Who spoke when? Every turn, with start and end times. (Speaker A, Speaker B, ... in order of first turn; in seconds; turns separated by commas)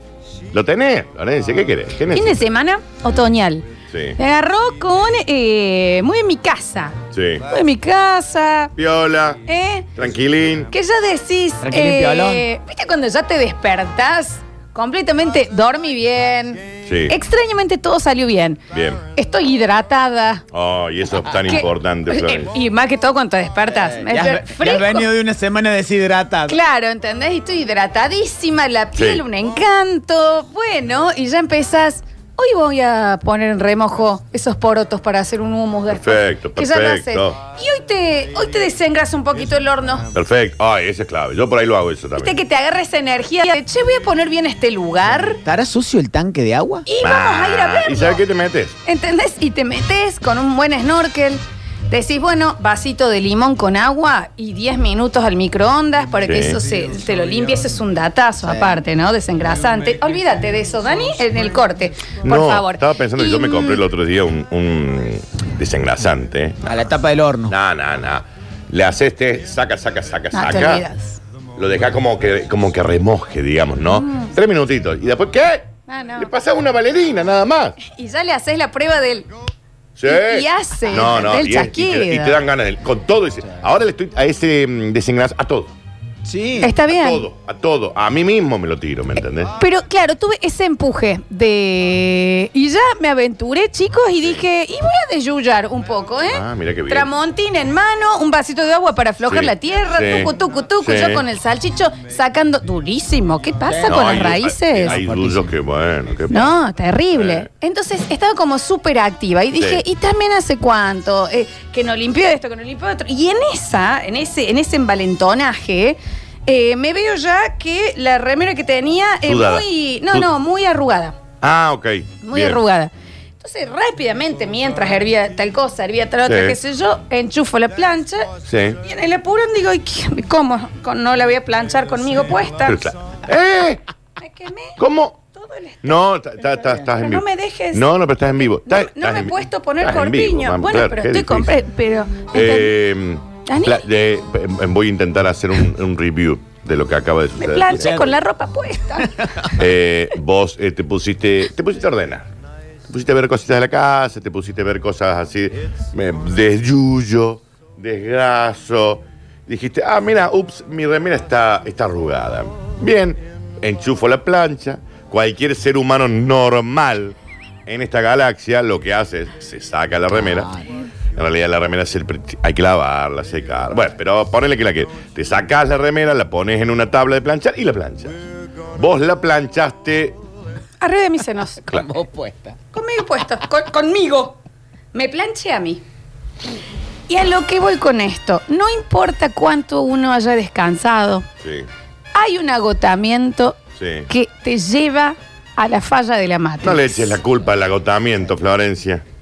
Speaker A: 0.5-2.4, Speaker B: 2.1-7.0, Speaker A: 3.9-4.2, Speaker A: 7.1-7.5, Speaker B: 7.5-8.7, Speaker A: 8.8-9.4, Speaker B: 9.5-9.9, Speaker A: 10.0-10.7, Speaker B: 10.7-18.6, Speaker C: 11.6-12.5, Speaker A: 16.9-17.1, Speaker A: 18.7-19.0, Speaker B: 19.1-20.4, Speaker A: 20.5-22.5, Speaker B: 21.3-25.1, Speaker C: 23.8-26.6, Speaker B: 26.5-40.1, Speaker A: 29.0-29.2, Speaker A: 35.9-37.4, Speaker A: 40.1-42.4, Speaker B: 42.1-45.4, Speaker C: 45.5-46.9, Speaker B: 46.9-48.2, Speaker A: 47.0-48.8, Speaker B: 48.9-63.8, Speaker A: 56.3-56.6, Speaker C: 58.4-58.8, Speaker A: 62.3-66.6, Speaker C: 66.7-67.5, Speaker A: 67.5-70.8, Speaker B: 70.3-71.2, Speaker A: 71.6-77.8, Speaker B: 73.9-74.3, Speaker B: 75.9-76.3, Speaker B: 77.8-79.3, Speaker A: 80.0-85.7, Speaker B: 80.0-82.4, Speaker C: 86.2-86.8, Speaker B: 86.6-87.3, Speaker A: 86.9-89.5, Speaker B: 89.6-105.0, Speaker A: 96.3-97.1, Speaker A: 99.2-101.2, Speaker C: 103.7-105.4, Speaker A: 103.9-106.5, Speaker B: 106.3-121.2, Speaker A: 107.1-107.5, Speaker A: 109.6-109.8, Speaker A: 119.3-120.3, Speaker A: 121.4-122.6, Speaker B: 122.2-128.3, Speaker A: 126.3-126.6, Speaker A: 128.4-128.8, Speaker B: 128.8-132.9, Speaker A: 132.7-133.8, Speaker B: 134.2-134.8, Speaker A: 134.8-135.2, Speaker B: 135.3-136.0, Speaker A: 135.8-141.5, Speaker B: 136.6-137.9, Speaker B: 138.5-142.8, Speaker A: 142.3-148.1, Speaker B: 143.5-143.9, Speaker B: 147.4-149.6, Speaker C: 147.7-148.1, Speaker C: 149.0-149.4, Speaker A: 149.5-152.3, Speaker A: 152.9-167.2, Speaker A: 167.7-170.5, Speaker C: 170.2-170.7, Speaker A: 171.2-178.2, Speaker A: 178.7-180.2, Speaker B: 180.8-181.7, Speaker C: 181.7-182.6, Speaker B: 182.7-184.4, Speaker B: 184.9-185.8, Speaker B: 187.1-191.3, Speaker A: 191.4-191.7, Speaker B: 192.1-197.2, Speaker A: 193.8-194.1, Speaker A: 196.6-199.0